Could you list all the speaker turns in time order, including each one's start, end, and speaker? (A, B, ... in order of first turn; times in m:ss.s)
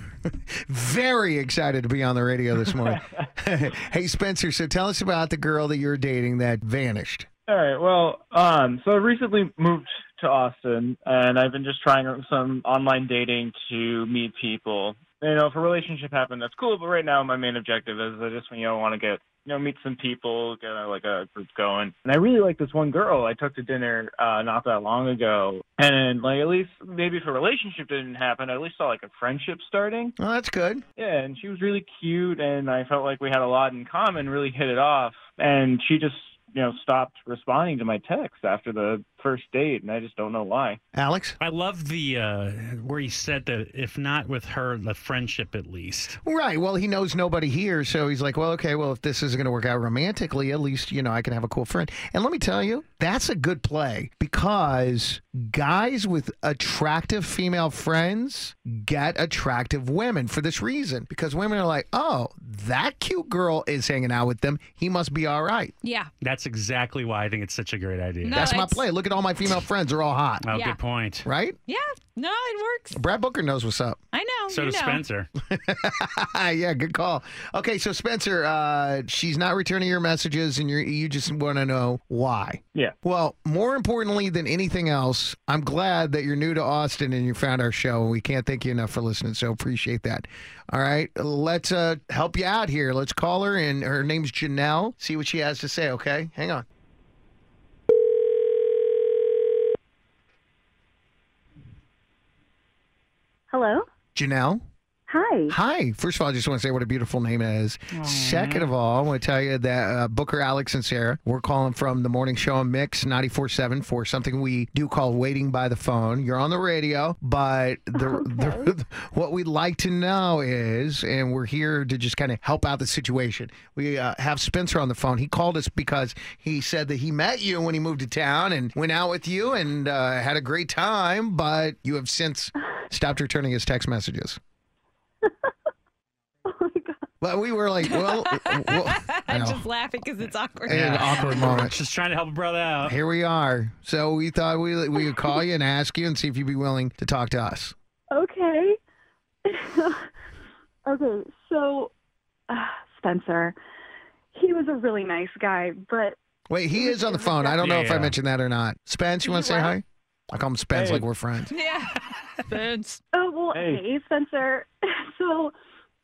0:00.2-0:07.3 A
0:07.5-0:30.2 B
0:30.2-0:30.8 A
0:31.0-0:40.8 B
0:40.9-0:41.4 A
0:41.4-0:46.2 C
0:46.2-1:05.8 A
1:05.8-1:06.1 D
1:06.2-1:08.4 C
1:08.2-1:08.9 D
1:08.3-1:10.5 A
1:10.4-1:11.3 C
1:10.5-1:10.8 D
1:11.2-1:11.6 A
1:11.7-1:13.0 D
1:12.9-1:14.0 A
1:14.1-1:15.0 D
1:14.5-1:15.3 C
1:15.5-1:36.6 A
1:43.5-1:43.9 E
1:44.2-1:44.6 A
1:45.1-1:45.6 E
1:45.5-2:14.4 A
1:48.0-1:48.7 C
1:58.0-1:58.7 E
2:15.2-2:15.5 E
2:16.5-2:17.0 E
2:17.2-2:19.6 A
2:17.9-2:20.8 D
2:20.7-2:21.8 A
2:20.7-2:23.0 C
2:22.8-2:27.7 A
2:28.1-2:28.8 E
2:29.5-2:30.1 E
2:30.9-2:31.9 E
2:32.5-2:33.6 E
2:34.3-2:36.2 E
2:36.5-2:41.5 A
2:36.7-2:37.8 E
2:37.6-2:38.2 C
2:39.2-2:39.8 E
2:41.5-2:43.0 D
2:43.1-2:45.5 E
2:43.5-2:43.8 B